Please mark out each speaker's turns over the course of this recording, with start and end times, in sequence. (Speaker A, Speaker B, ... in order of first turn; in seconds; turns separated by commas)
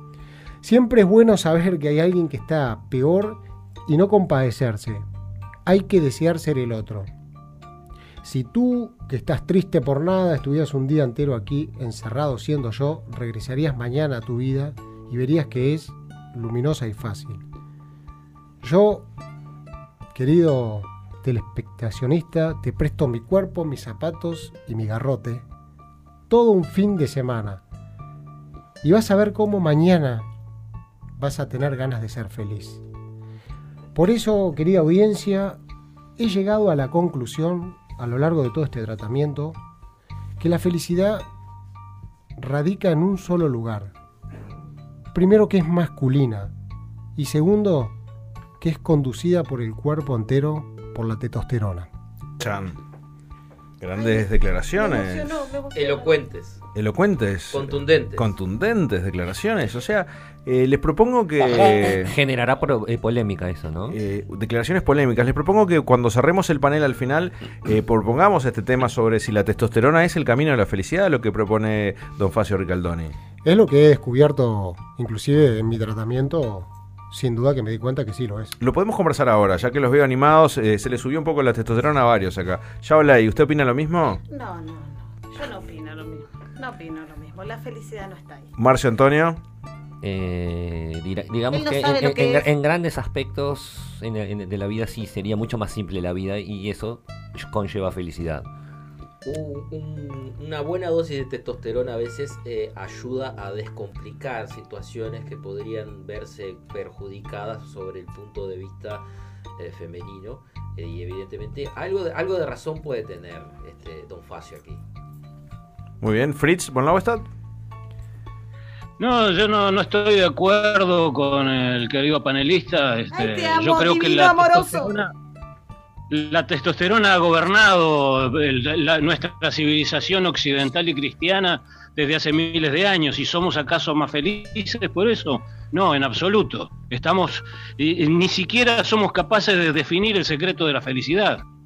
Speaker A: 0.6-5.0, Speaker A: 5.6-7.1, Speaker A: 8.2-17.4, Speaker A: 18.6-19.1, Speaker A: 20.1-25.5, Speaker A: 26.3-27.6, Speaker A: 28.8-30.3, Speaker A: 31.2-32.8, Speaker A: 33.9-35.6, Speaker A: 36.2-39.6, Speaker A: 40.4-41.2, Speaker A: 42.4-43.9, Speaker A: 45.1-46.5, Speaker A: 47.2-48.0, Speaker A: 48.6-51.9, Speaker B: 52.4-52.8, Speaker B: 53.8-55.5, Speaker C: 54.0-56.2, Speaker D: 55.8-56.6, Speaker B: 56.8-62.1, Speaker D: 57.5-58.3, Speaker E: 61.4-64.0, Speaker B: 63.9-73.2, Speaker A: 73.4-78.6, Speaker B: 78.6-84.2, Speaker C: 84.3-88.5, Speaker B: 88.6-89.4, Speaker E: 90.0-98.5, Speaker C: 91.5-92.5, Speaker D: 99.2-109.0, Speaker D: 109.6-114.8, Speaker B: 116.0-117.3, Speaker F: 119.0-125.1, Speaker C: 123.1-124.9, Speaker F: 126.1-141.4